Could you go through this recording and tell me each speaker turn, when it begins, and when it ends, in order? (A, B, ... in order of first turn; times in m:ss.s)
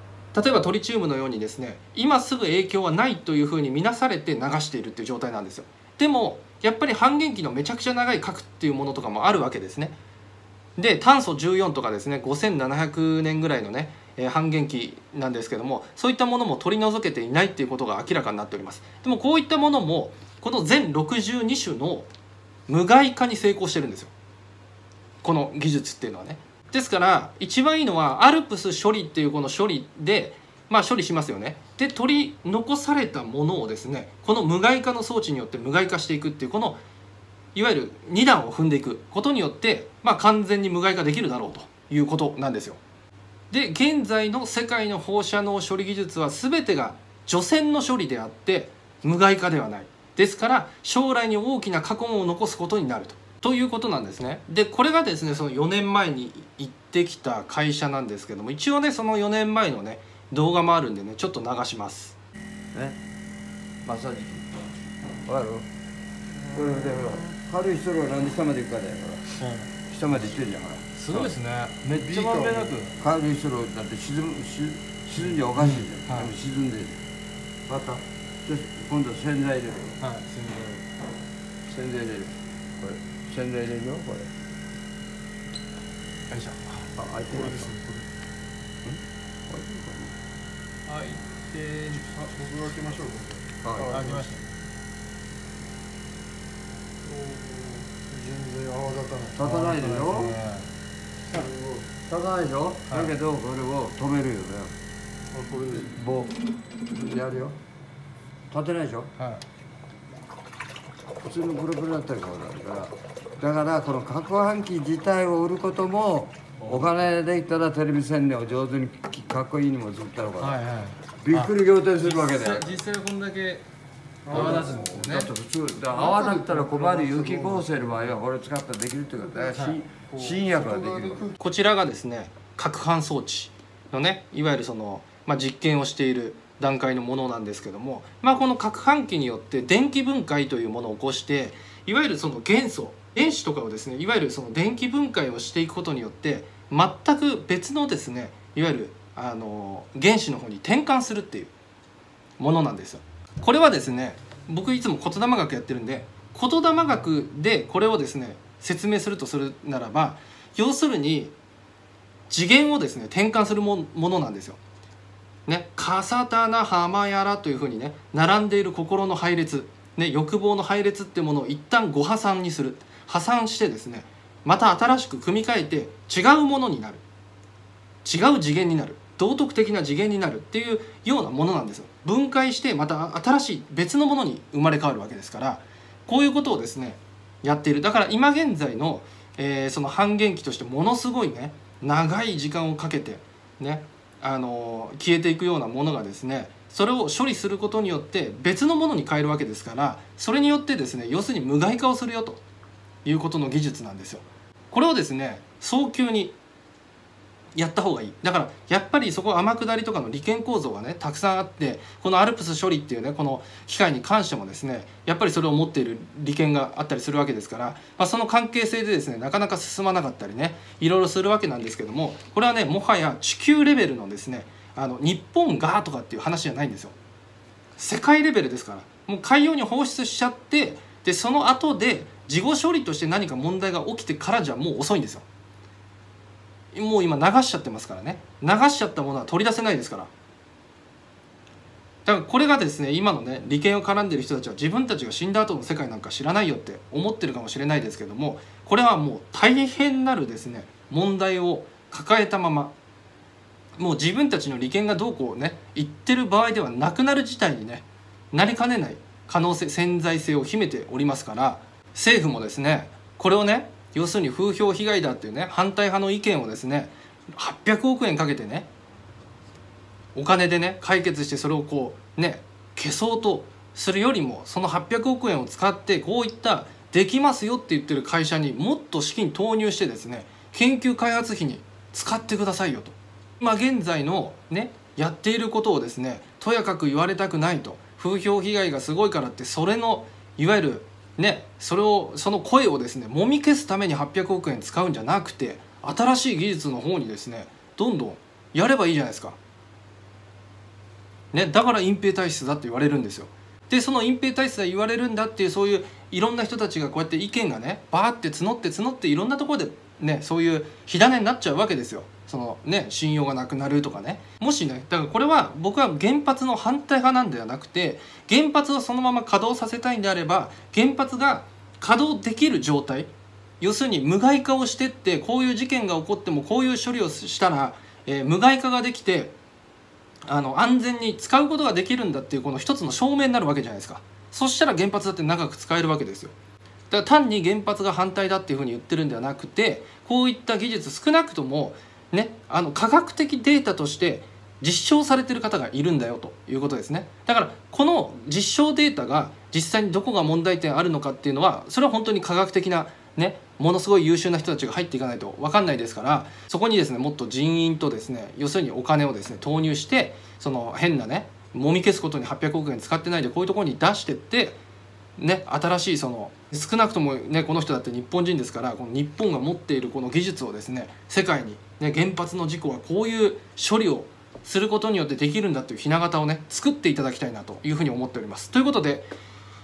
0:00.3-0:10.0 A
0:10.8-0:22.1 A
0:22.7-0:24.1 A
0:25.2-0:36.8 A
0:37.5-0:42.8 A
0:43.5-1:02.2 A
1:03.8-1:04.6 B
1:05.2-1:05.7 B
1:06.5-1:09.3 B
1:09.4-1:09.7 A
1:09.9-1:11.3 B
1:10.9-1:13.0 A
1:12.1-1:12.7 C
1:12.9-1:17.0 B
1:15.3-1:16.3 A
1:17.7-1:20.0 B
1:20.0-1:20.8 A
1:21.6-1:24.3 B
1:26.3-1:28.0 A
1:27.0-1:27.7 B
1:28.8-1:30.2 B
1:30.9-1:33.2 A
1:32.1-1:34.2 C
1:33.6-1:34.0 B
1:33.9-1:34.5 A
1:37.1-1:39.4 C
1:39.3-1:40.4 B
1:39.4-1:40.7 A
1:41.3-1:44.8 B
1:41.3-1:41.6 C
1:42.9-1:43.1 A
1:45.3-1:45.9 C
1:45.7-1:47.6 B
1:48.5-1:49.1 B
1:49.2-1:49.4 A
1:51.2-2:00.6 B
2:00.4-2:03.6 A
2:01.2-2:02.7 B
2:04.3-2:04.6 C
2:04.3-2:05.3 A
2:04.3-2:11.3 B
2:06.0-2:07.8 C
2:09.5-2:09.8 A
2:10.1-2:11.1 C
2:11.4-2:31.5 A
2:32.4-2:41.3 A
2:42.3-2:44.6 A
2:45.5-2:57.0 A
2:58.0-3:22.4 A
3:23.0-3:26.4 A
3:27.6-3:46.9 A
3:47.8-3:55.2 A
3:56.7-4:00.1 A
4:02.0-4:12.7 A
4:13.8-4:28.7 A
4:30.1-4:59.4 A
5:01.3-5:23.1 A
5:23.6-5:29.3 A
5:30.3-5:36.3 A
5:36.9-6:04.6 A
6:05.2-6:19.1 A